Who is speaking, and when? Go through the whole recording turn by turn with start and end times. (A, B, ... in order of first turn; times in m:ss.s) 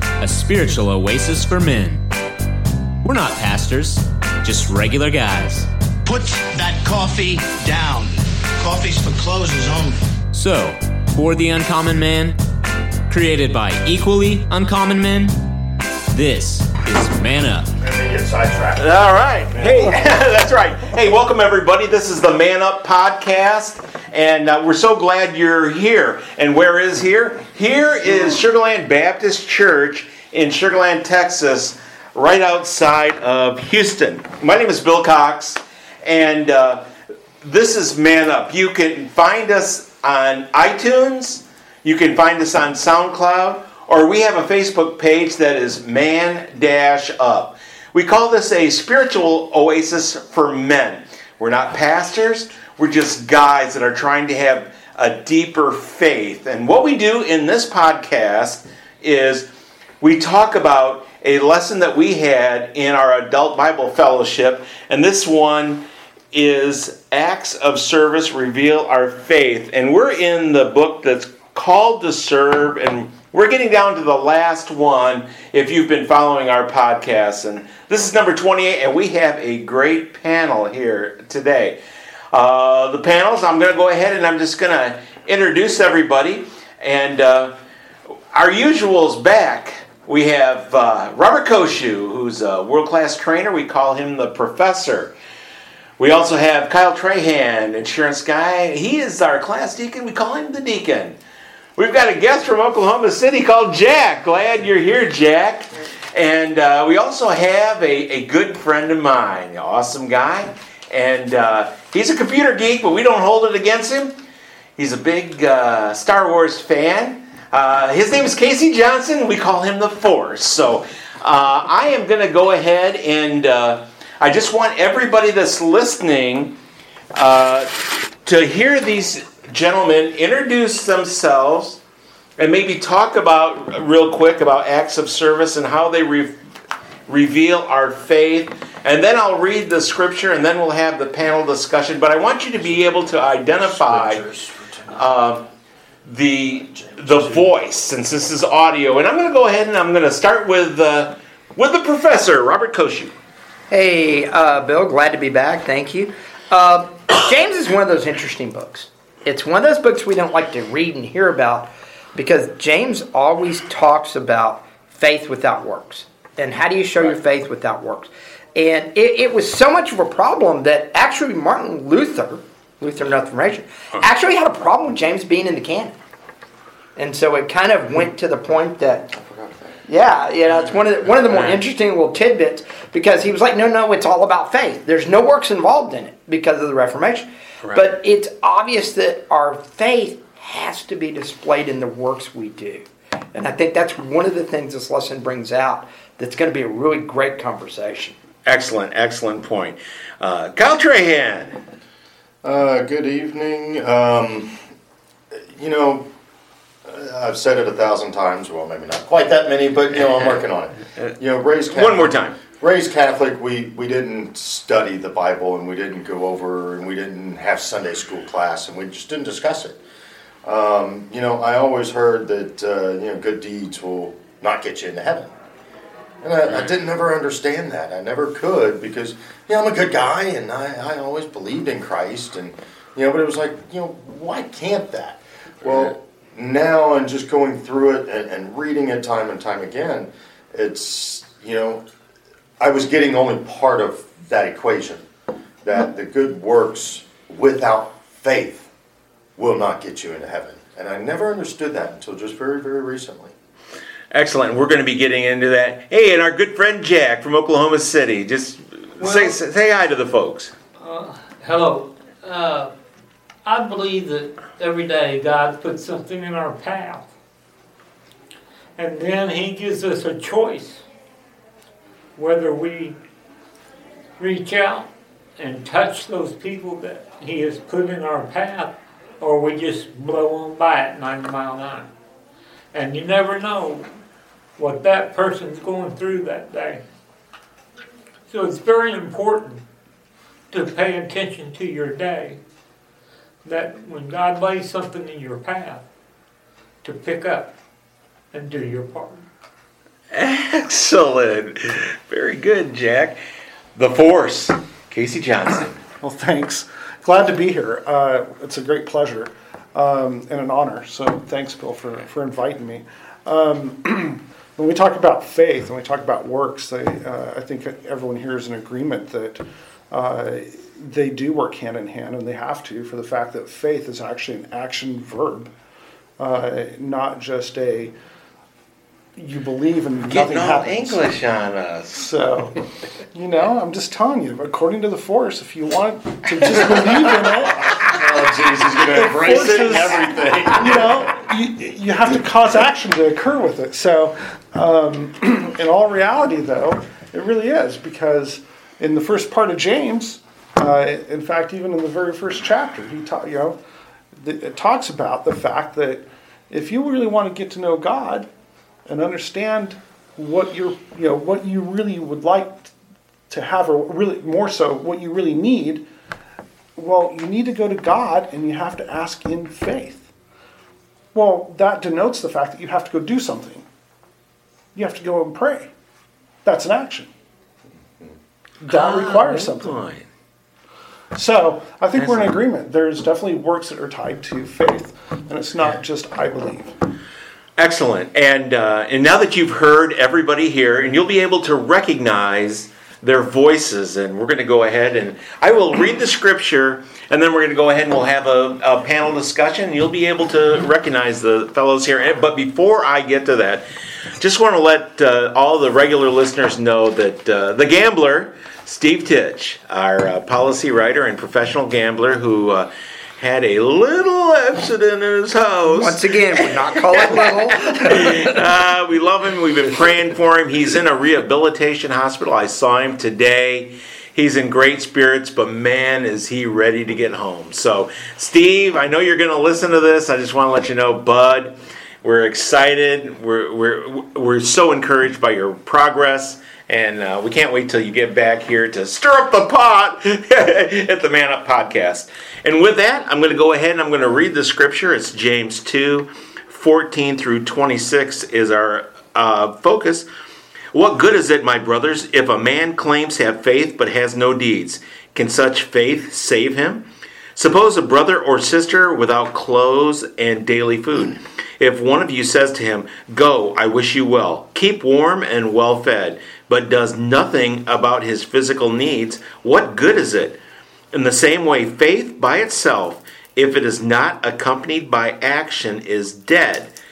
0:00.2-0:02.1 A
0:03.0-0:05.7 A
0:06.0-0:10.0 B
0:10.3-0:12.4 A
0:13.1-0:15.5 A
0:16.1-0:17.7 A
0:17.8-0:20.2 C
0:18.8-0:36.9 D
0:37.4-0:59.5 D
1:00.0-1:21.8 D
1:22.3-1:27.6 D
1:28.3-1:35.1 D
1:36.0-1:41.2 D
1:41.8-1:54.2 D
1:54.8-2:06.6 D
2:07.1-2:11.8 D
2:12.4-2:16.4 D
2:17.1-2:24.3 D
2:23.8-2:24.8 C
2:24.9-2:25.5 D
2:26.0-2:33.2 D
2:33.7-2:56.0 E
2:57.0-2:59.1 E
2:59.2-2:59.8 C
2:59.9-3:18.2 E
3:01.3-3:01.6 D
3:18.5-3:21.6 D
3:22.4-3:24.6 C
3:25.4-3:26.1 C
3:26.9-3:39.8 C
3:31.7-3:32.4 D
3:40.4-3:45.3 C
3:46.2-4:01.9 C
4:02.6-4:05.1 C
4:05.6-4:08.7 C
4:09.4-4:13.3 C
4:14.1-4:20.5 D
4:19.0-4:19.4 F
4:20.8-4:22.7 F
4:23.4-4:27.1 F
4:28.8-4:30.8 F
4:32.2-4:33.0 F
4:34.2-4:41.9 F
4:42.7-4:43.9 F
4:44.6-4:46.8 F
4:48.3-4:49.6 F
4:50.5-4:52.4 F
4:53.4-4:55.8 F
4:56.8-4:57.5 F
4:58.3-4:59.2 F
5:00.1-5:03.2 D
5:03.8-5:05.8 D
5:06.0-5:25.5 G
5:26.2-5:27.9 G
5:29.2-5:31.0 G
5:30.1-5:32.2 D
5:32.0-5:32.6 G
5:33.1-5:37.8 G
5:37.8-5:41.1 C
5:38.8-5:53.6 G
5:54.2-5:58.3 G
5:58.9-6:02.7 G
6:03.3-6:05.9 G
6:06.8-6:10.1 G
6:11.1-6:13.7 G
6:14.7-6:15.7 G
6:16.4-6:17.1 G
6:18.6-6:20.1 D
6:18.6-6:19.8 G
6:21.1-6:26.8 G
6:22.0-6:22.3 D
6:27.6-6:43.7 D
6:44.2-6:56.2 D
6:55.7-6:58.4 E
6:56.9-7:30.1 D
7:30.7-7:50.4 D
7:50.9-7:56.7 D